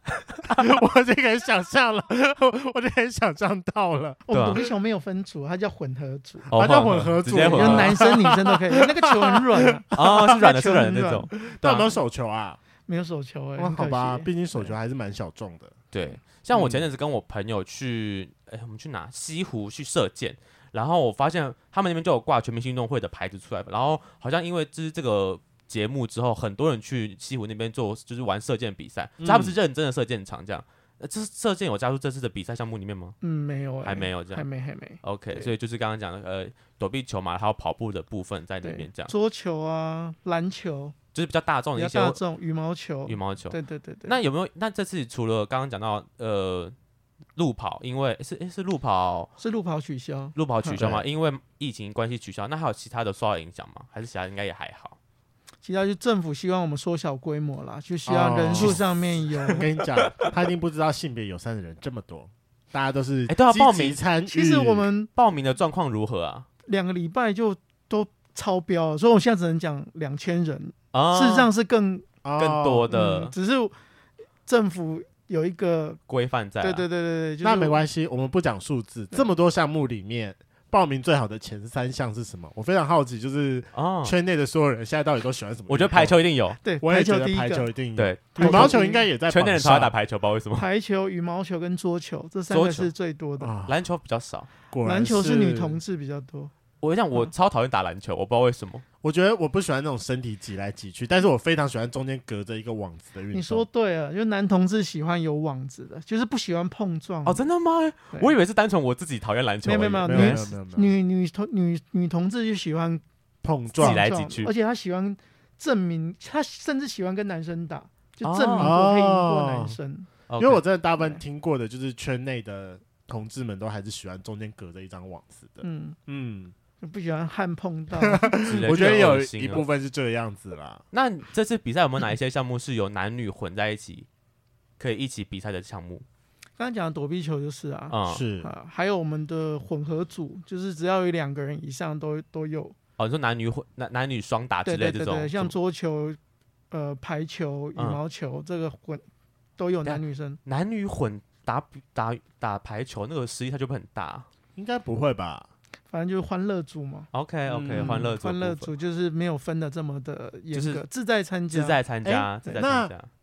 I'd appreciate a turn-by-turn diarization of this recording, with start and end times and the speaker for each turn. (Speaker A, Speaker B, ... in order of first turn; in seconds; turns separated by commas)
Speaker A: 0.4-4.2, Speaker B: 4.3-6.5, Speaker C: 4.3-4.6, Speaker C: 6.5-8.0, Speaker A: 6.5-10.3, Speaker B: 7.4-11.3, Speaker C: 9.9-11.9, Speaker A: 11.3-12.6, Speaker B: 12.9-14.8, Speaker A: 13.6-15.8, Speaker C: 15.9-33.2, Speaker A: 16.5-16.9, Speaker A: 29.2-29.6, Speaker B: 33.2-35.5, Speaker C: 33.8-34.5, Speaker C: 35.0-39.1, Speaker B: 38.6-41.0, Speaker C: 41.1-42.2, Speaker B: 41.8-44.2, Speaker C: 43.1-46.7, Speaker C: 47.4-49.3, Speaker B: 49.4-50.8, Speaker C: 50.4-55.0, Speaker A: 50.8-51.0, Speaker B: 55.6-59.7, Speaker A: 58.1-58.8, Speaker A: 59.4-64.9, Speaker C: 63.3-64.0, Speaker B: 64.3-65.1, Speaker C: 65.2-66.5, Speaker B: 66.7-72.1, Speaker C: 70.9-71.5, Speaker A: 72.2-72.9, Speaker C: 72.4-73.3, Speaker B: 72.9-73.7, Speaker B: 74.5-76.0, Speaker C: 76.1-76.8, Speaker B: 76.6-77.8, Speaker A: 77.4-86.2, Speaker C: 83.7-84.1, Speaker C: 85.7-86.6, Speaker B: 86.6-87.7, Speaker A: 86.8-89.9, Speaker C: 88.0-90.7, Speaker B: 88.3-89.1, Speaker B: 90.5-93.5, Speaker C: 92.5-92.9, Speaker A: 93.4-93.8, Speaker C: 93.7-94.5, Speaker A: 94.7-95.8, Speaker B: 94.8-96.5, Speaker C: 96.8-98.8, Speaker A: 99.0-103.7, Speaker B: 103.3-107.5, Speaker C: 107.2-110.5, Speaker B: 109.6-113.0, Speaker A: 110.1-110.9, Speaker A: 113.4-114.0, Speaker B: 113.7-120.1, Speaker C: 113.8-114.5, Speaker C: 118.2-118.7, Speaker A: 118.6-119.8, Speaker C: 120.3-120.6, Speaker A: 120.4-126.5, Speaker B: 125.6-126.0, Speaker B: 126.8-128.4, Speaker A: 128.0-130.8, Speaker C: 128.4-129.7, Speaker C: 130.9-134.1, Speaker C: 134.8-136.0, Speaker B: 136.6-142.8, Speaker C: 137.9-138.2, Speaker A: 138.1-138.5, Speaker C: 143.0-145.5, Speaker B: 144.7-146.2, Speaker B: 146.7-149.1, Speaker B: 149.6-150.4, Speaker C: 149.8-154.3, Speaker A: 154.6-155.5, Speaker B: 155.9-157.1, Speaker C: 157.1-158.7, Speaker A: 157.5-158.1, Speaker B: 157.7-161.8, Speaker C: 160.5-160.8, Speaker C: 161.5-163.1, Speaker A: 162.1-162.9